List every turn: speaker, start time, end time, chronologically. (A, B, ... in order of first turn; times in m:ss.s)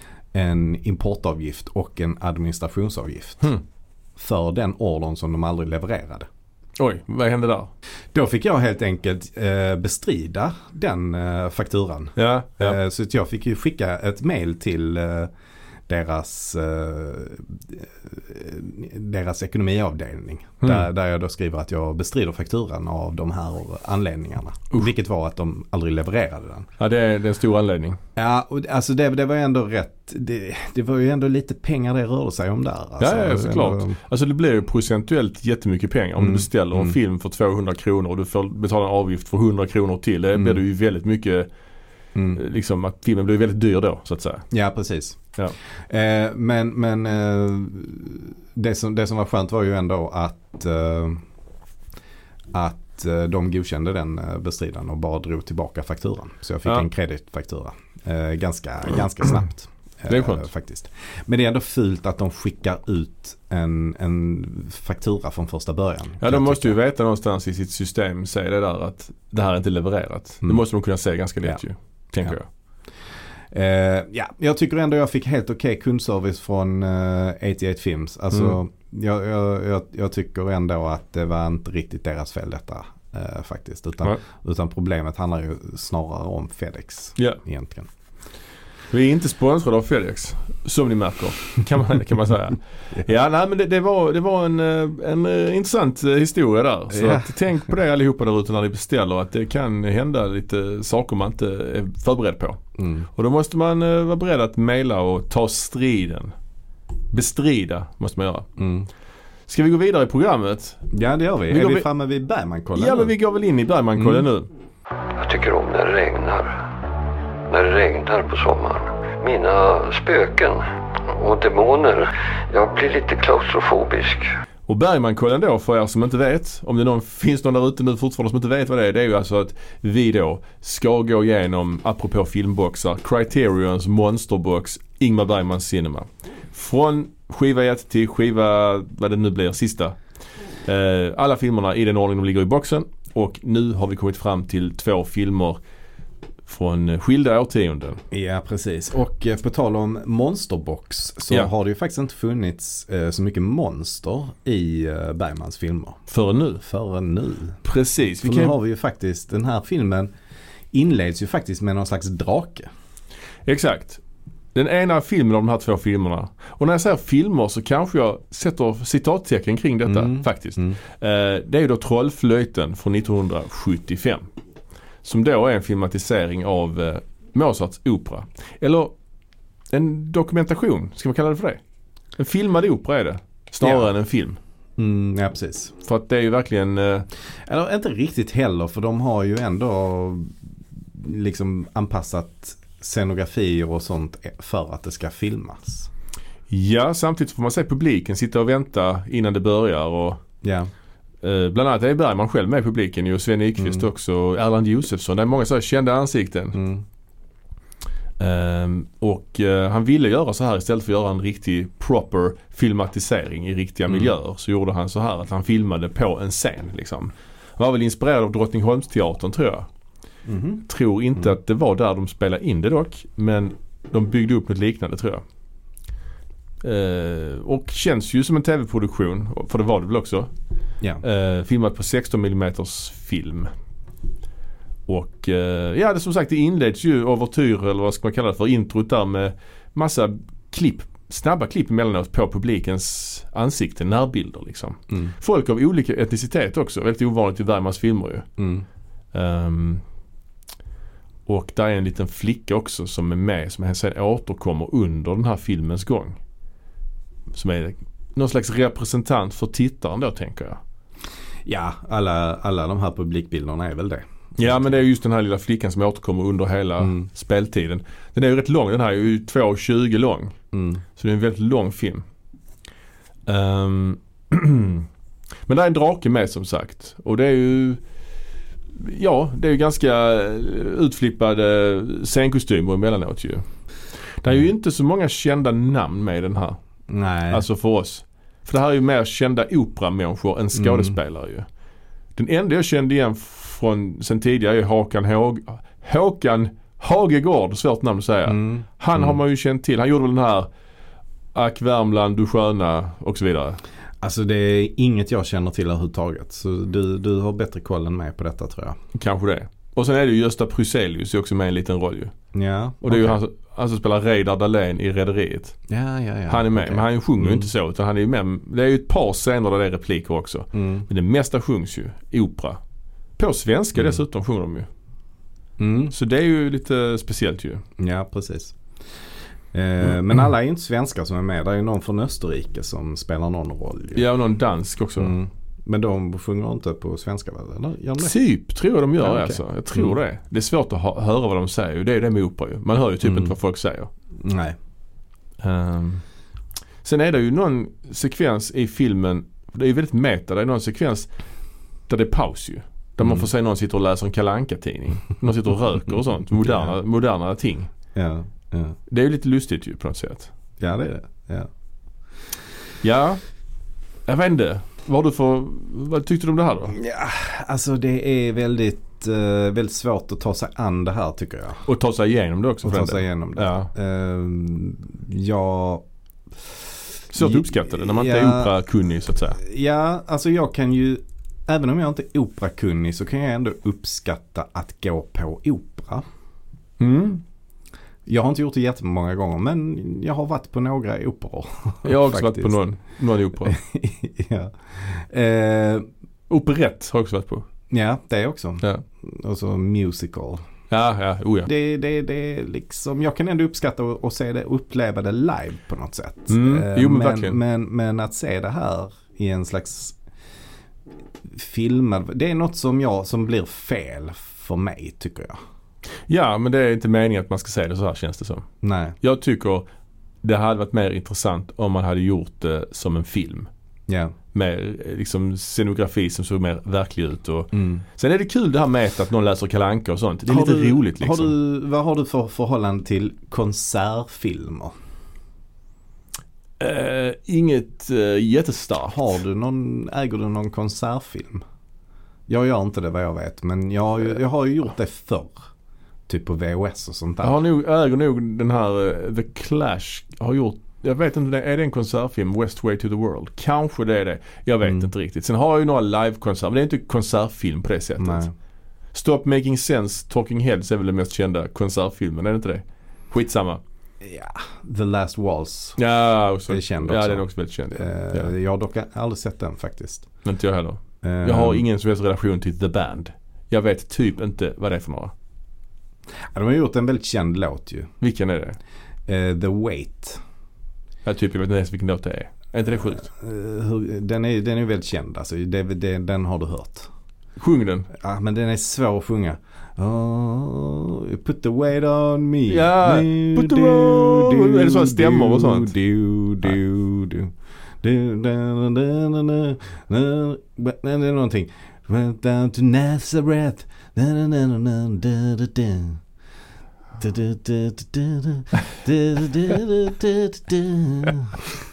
0:00.3-0:03.5 A
0:04.2-0:06.3 A
0:06.8-0:07.7 B
0:08.1-0:15.3 A
0:12.2-0:12.8 B
0:15.9-0:26.7 A
0:20.6-0:20.9 B
0:26.8-0:28.0 B
0:28.2-0:34.0 A
0:33.0-0:41.5 B
0:36.2-0:37.0 A
0:40.3-0:40.6 A
0:42.3-0:44.5 B
0:44.5-0:45.2 A
0:45.9-0:51.2 A
0:52.5-1:06.8 A
1:00.1-1:00.5 B
1:06.2-1:12.5 B
1:13.5-1:27.9 A
1:28.9-1:42.6 B
1:36.9-1:37.3 A
1:42.8-1:43.1 A
1:43.1-1:46.3 B
1:47.1-1:48.5 B
1:48.6-1:48.9 A
1:49.5-1:50.8 B
1:50.9-1:53.1 A
1:51.5-1:51.8 B
1:52.8-1:54.5 B
1:54.0-1:54.2 A
1:55.1-1:56.6 C
1:57.5-2:04.3 C
2:04.7-2:20.0 B
2:20.6-2:25.6 B
2:26.4-2:28.0 B
2:28.1-2:36.0 A
2:36.1-2:36.6 B
2:36.6-2:37.6 A
2:37.6-2:38.6 B
2:38.2-2:40.1 A
2:40.7-2:42.7 A
2:43.4-2:44.0 B
2:44.5-2:54.2 B
2:49.8-2:50.8 A
2:55.0-2:58.9 B
2:59.7-3:01.6 B
3:02.2-3:04.4 B
3:03.6-3:03.9 A
3:04.8-3:05.7 A
3:05.8-3:07.0 B
3:07.5-3:10.4 A
3:10.9-3:15.9 A
3:16.5-3:20.2 B
3:20.4-3:20.7 A
3:21.2-3:26.6 B
3:23.6-3:23.8 A
3:26.5-3:26.8 A
3:28.2-3:39.7 B
3:33.9-3:34.1 A
3:40.2-3:40.6 A
3:40.7-3:45.2 B
3:46.6-3:50.3 B
3:51.0-3:53.5 B
3:54.9-4:08.3 B
4:08.4-4:08.6 A
4:09.1-4:09.8 B
4:11.2-4:16.2 B
4:17.3-4:20.6 B
4:21.4-4:24.7 A
4:24.4-4:30.4 B
4:26.8-4:27.1 A
4:30.5-4:30.8 A
4:31.0-4:32.0 B
4:33.3-4:34.9 B
4:35.5-4:37.8 B
4:38.8-4:43.4 B
4:44.2-4:46.6 B
4:46.9-4:47.4 A
4:47.3-4:51.4 B
4:50.5-4:51.0 A
4:52.2-5:00.5 B
4:58.2-4:59.2 A
5:01.3-5:03.6 B
5:04.0-5:08.8 A
5:08.9-5:12.1 B
5:12.3-5:13.2 A
5:12.8-5:15.6 B
5:15.7-5:17.5 A
5:16.3-5:22.6 B
5:20.5-5:20.9 A
5:23.2-5:24.7 B
5:25.6-5:25.9 A
5:25.9-5:27.6 B
5:27.8-5:28.6 A
5:29.5-5:34.0 A
5:33.9-5:35.1 B
5:35.0-5:38.1 A
5:38.0-5:43.9 B
5:39.0-5:40.0 A
5:43.0-5:43.3 A
5:44.2-5:44.6 A
5:45.4-5:46.0 B
5:46.8-5:51.1 B
5:51.9-5:57.7 B
5:53.0-5:53.3 A
5:56.4-5:56.7 A
5:57.9-5:58.8 A
5:58.9-6:00.3 B
6:00.6-6:01.5 A
6:02.8-6:03.2 B
6:04.1-6:06.8 B
6:06.7-6:11.6 A
6:11.6-6:13.7 B
6:12.6-6:15.8 A
6:17.1-6:19.4 B
6:17.2-6:18.5 A
6:19.4-6:26.0 A
6:26.8-6:27.2 B
6:28.0-6:32.6 A
6:31.8-6:33.6 B
6:33.4-6:35.9 A
6:36.3-6:37.5 B
6:37.7-6:40.4 A
6:40.7-6:41.5 B
6:41.4-6:50.0 A
6:46.3-6:47.4 B
6:51.2-6:55.4 A
6:56.1-6:58.4 B
6:58.6-6:59.0 A
6:59.0-6:59.6 B
7:00.2-7:03.5 B
7:03.9-7:04.1 A
7:04.3-7:11.3 B
7:07.5-7:07.8 A
7:10.2-7:14.7 A
7:16.6-7:19.1 B
7:18.9-7:21.4 A
7:22.3-7:25.4 A
7:26.1-7:27.4 A
7:27.2-7:38.2 B
7:34.6-7:34.9 A
7:38.0-7:38.3 A
7:38.9-7:43.6 B
7:44.0-7:45.8 A
7:45.8-7:48.3 B
7:46.5-7:50.1 A
7:50.2-7:55.1 B
7:51.0-7:51.6 A
7:56.3-7:57.9 A
7:58.0-7:58.6 B
7:59.1-8:00.2 A
8:01.0-8:03.1 B
8:03.0-8:06.9 A
8:07.4-8:07.9 B
8:07.9-8:26.0 A
8:12.5-8:15.7 B
8:27.0-8:31.5 A